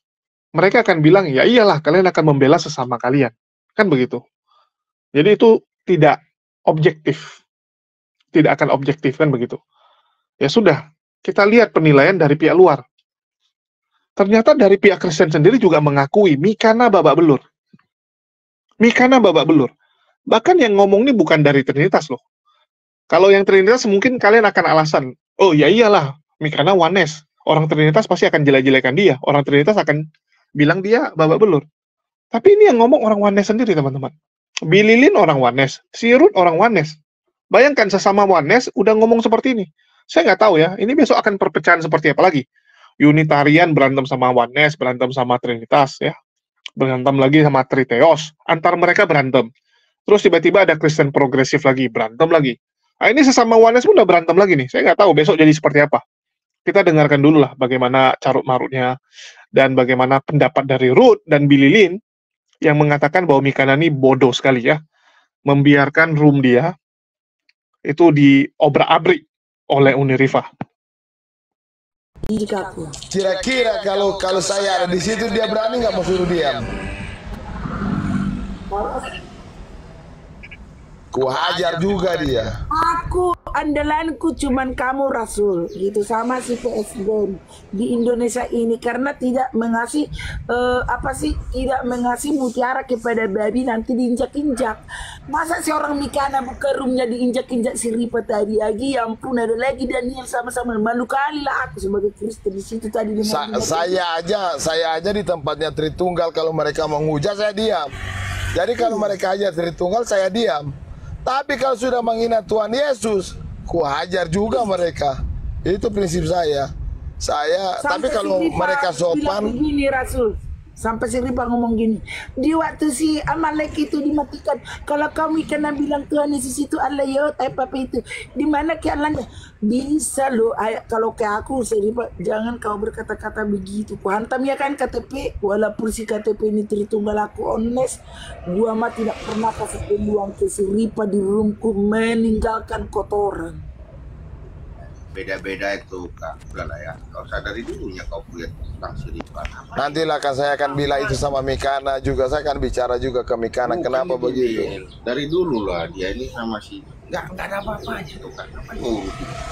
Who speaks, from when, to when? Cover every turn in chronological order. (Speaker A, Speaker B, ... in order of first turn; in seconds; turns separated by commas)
Speaker A: 0.6-4.2, Speaker A: 5.2-6.2, Speaker A: 6.7-7.3, Speaker A: 8.3-9.6, Speaker A: 10.4-12.8, Speaker A: 14.2-17.4, Speaker A: 18.8-19.7, Speaker A: 20.3-22.2, Speaker A: 23.1-30.0, Speaker A: 30.6-31.6, Speaker A: 32.3-34.1, Speaker A: 34.7-37.0, Speaker A: 37.5-42.4, Speaker A: 43.0-46.2, Speaker A: 46.8-49.5, Speaker A: 50.1-56.0, Speaker A: 56.7-58.9, Speaker A: 59.5-62.0, Speaker A: 62.6-64.8, Speaker A: 65.5-66.7, Speaker A: 67.9-70.5, Speaker B: 72.3-72.9, Speaker C: 73.1-76.6, Speaker D: 73.5-76.5, Speaker B: 78.7-79.1, Speaker C: 81.1-82.5, Speaker D: 81.3-82.4, Speaker B: 82.7-94.8, Speaker B: 95.3-104.0, Speaker C: 103.2-107.9, Speaker C: 108.5-110.7, Speaker B: 108.8-109.1, Speaker C: 111.2-116.7, Speaker C: 117.2-119.6, Speaker B: 117.8-138.0, Speaker B: 138.5-143.6, Speaker D: 145.1-150.0, Speaker C: 149.8-154.8, Speaker D: 150.6-151.3, Speaker D: 153.7-159.4